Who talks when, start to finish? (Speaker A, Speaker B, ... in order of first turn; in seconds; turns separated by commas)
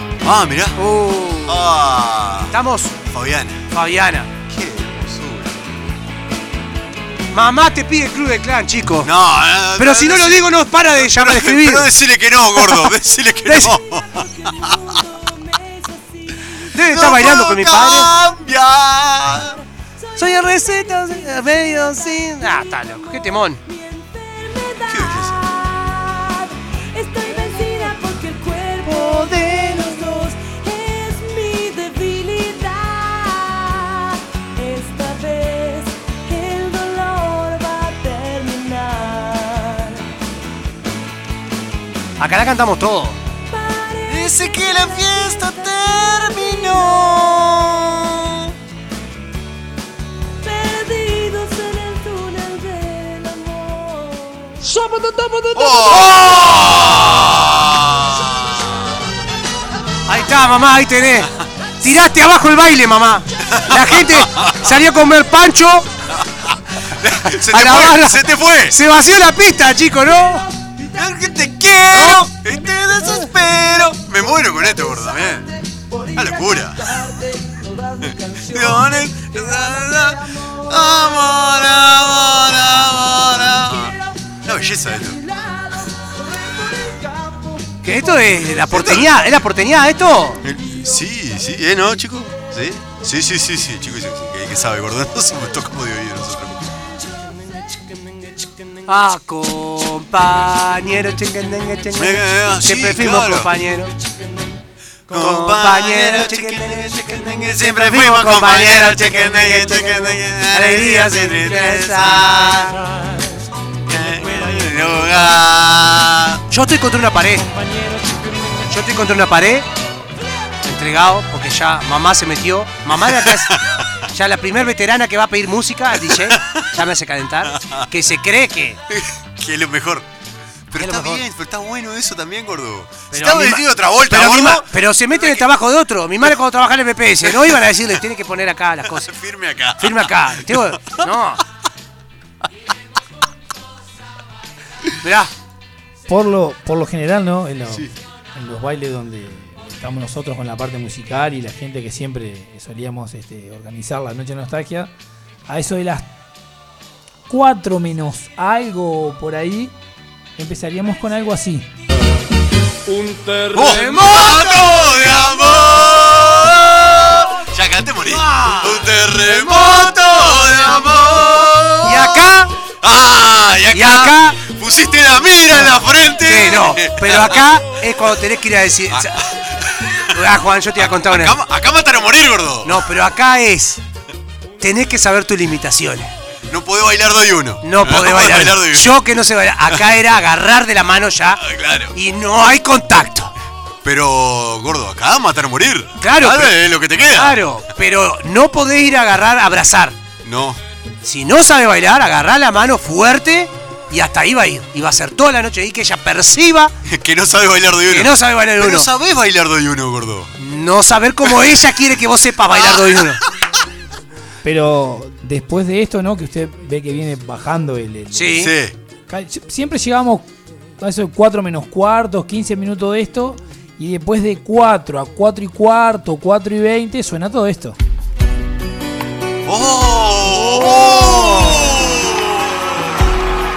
Speaker A: 0.2-0.8, Speaker B: 0.8-1.6, Speaker A: 1.4-3.6, Speaker B: 2.5-2.9, Speaker B: 3.7-4.3, Speaker A: 4.5-5.9, Speaker B: 7.3-9.1, Speaker A: 9.0-15.0, Speaker B: 9.8-11.9, Speaker B: 12.5-12.9, Speaker B: 13.4-13.8, Speaker C: 14.2-16.3, Speaker B: 16.7-18.1, Speaker A: 16.8-19.6, Speaker B: 20.1-23.6, Speaker C: 23.7-40.0, Speaker A: 24.8-25.4, Speaker B: 28.9-29.7, Speaker B: 42.2-43.2, Speaker C: 43.5-47.2, Speaker A: 44.0-48.5, Speaker C: 50.4-56.1, Speaker A: 55.5-59.0, Speaker B: 55.9-56.4, Speaker B: 60.1-65.9, Speaker A: 63.4-64.7, Speaker A: 66.1-68.8, Speaker B: 67.2-70.5, Speaker A: 70.9-75.5, Speaker B: 71.9-72.3, Speaker A: 76.1-77.2, Speaker A: 78.0-85.2, Speaker B: 87.8-90.4, Speaker A: 88.7-89.2, Speaker A: 90.4-96.8, Speaker B: 98.8-103.9, Speaker A: 101.9-103.5, Speaker A: 105.1-112.8, Speaker B: 105.1-113.1, Speaker A: 113.8-116.4, Speaker B: 116.5-117.5, Speaker B: 118.5-119.7, Speaker B: 120.6-123.5, Speaker A: 122.9-123.8, Speaker B: 124.1-128.8, Speaker A: 126.0-126.6, Speaker A: 127.4-127.8, Speaker A: 128.9-130.1, Speaker A: 130.7-135.5, Speaker B: 130.8-131.2, Speaker B: 133.1-139.1, Speaker A: 137.2-137.6, Speaker A: 138.8-141.1, Speaker B: 139.8-141.4, Speaker B: 145.0-145.3, Speaker D: 146.1-154.9, Speaker D: 155.5-156.1, Speaker D: 157.3-159.7, Speaker D: 160.4-161.7, Speaker A: 163.5-177.6, Speaker B: 163.6-164.9, Speaker B: 168.1-170.0, Speaker B: 171.8-172.5, Speaker B: 173.7-174.4, Speaker B: 176.2-179.2, Speaker A: 178.9-180.2, Speaker B: 180.1-181.4, Speaker A: 180.8-182.9, Speaker B: 182.6-183.8, Speaker B: 184.6-186.1, Speaker A: 186.5-189.0, Speaker B: 187.6-193.3, Speaker A: 191.3-191.9, Speaker A: 193.8-197.4, Speaker B: 196.0-200.0, Speaker A: 200.2-200.6, Speaker B: 201.0-206.8, Speaker A: 206.8-210.3, Speaker B: 207.9-208.9, Speaker B: 210.4-213.2, Speaker A: 212.5-213.3, Speaker D: 214.4-218.4, Speaker B: 218.1-218.5, Speaker A: 218.4-218.8, Speaker D: 219.1-227.8, Speaker A: 229.4-233.1, Speaker B: 230.3-231.6